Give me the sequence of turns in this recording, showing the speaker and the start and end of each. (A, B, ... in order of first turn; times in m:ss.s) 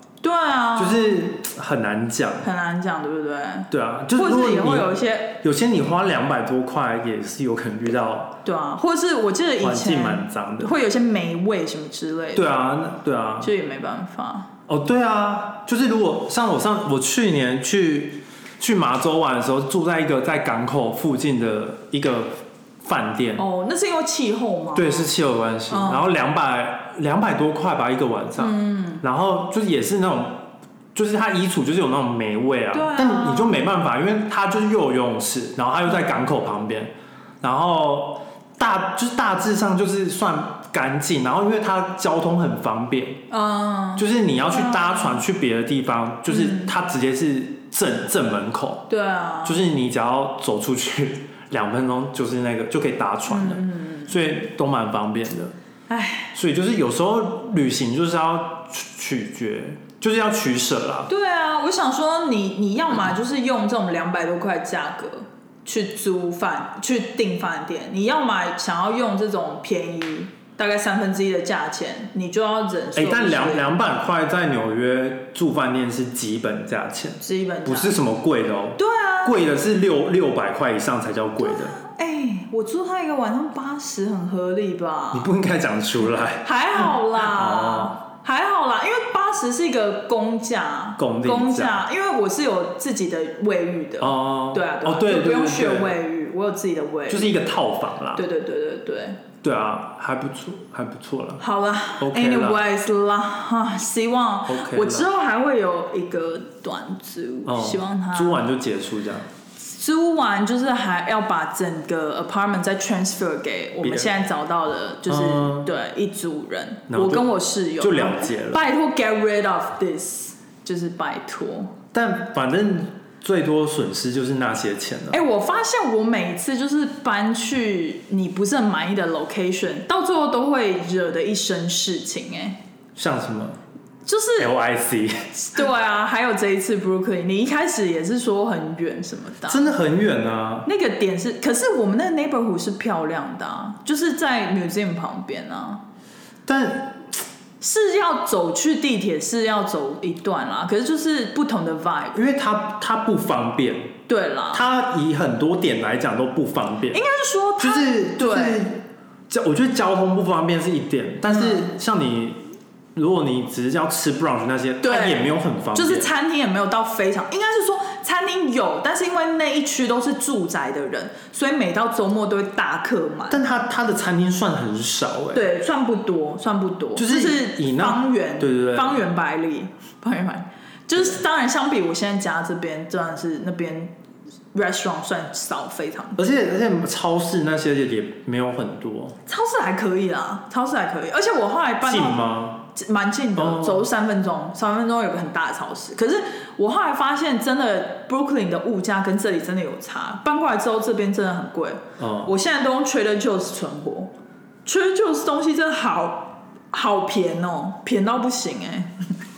0:00.2-0:01.3 A
0:00.8-0:02.5 B
0:02.4-0:05.4 A
0:03.7-0:08.4 B
0:08.4-0:12.4 A
0:09.6-0:10.7 B
0:12.4-0:13.5 B
0:13.4-0:14.5 A
0:14.7-0:23.4 B
0:23.4-0:25.1 A
0:24.8-0:43.2 B
0:25.7-0:26.1 A
0:28.4-0:29.0 A
0:32.7-0:33.7 A
0:43.3-0:45.2 A
0:44.0-0:48.9 B
0:46.3-0:46.7 A
0:48.9-0:49.6 A
0:49.4-0:55.5 B
0:53.3-0:54.2 A
0:55.9-0:56.4 A
0:56.3-1:01.1 B
1:01.1-1:13.7 A
1:13.0-1:21.8 B
1:17.2-1:18.0 A
1:18.8-1:19.4 A
1:21.4-1:25.3 A
1:25.1-1:28.0 B
1:26.4-1:37.4 A
1:31.0-1:31.8 B
1:34.0-1:35.9 B
1:37.1-1:38.2 B
1:38.2-1:39.2 A
1:39.4-1:41.4 B
1:41.4-1:48.4 A
1:42.0-1:42.6 B
1:44.5-1:45.1 B
1:47.5-1:49.3 B
1:49.6-2:01.7 A
1:53.8-1:54.1 B
1:55.1-1:55.7 B
1:56.9-1:58.6 B
2:01.9-2:05.2 B
2:05.1-2:12.6 A
2:13.0-2:13.6 B
2:14.1-2:14.5 A
2:14.4-2:15.6 B
2:15.4-2:19.7 A
2:19.5-2:20.7 B
2:20.7-2:25.8 A
2:26.5-2:27.0 B
2:27.6-2:32.2 A
2:32.1-2:34.0 B
2:34.1-2:34.6 A
2:34.5-2:37.0 B
2:36.9-2:38.7 A
2:37.6-2:46.1 B
2:41.3-2:41.7 A
2:44.8-2:53.4 A
2:53.3-2:55.5 B
2:55.3-3:03.9 A
2:57.0-2:59.0 B
3:04.5-3:06.2 A
3:06.2-3:09.2 B
3:09.3-3:24.1 A
3:11.8-3:12.6 B
3:13.4-3:13.9 B
3:22.0-3:22.3 B
3:24.7-3:28.9 A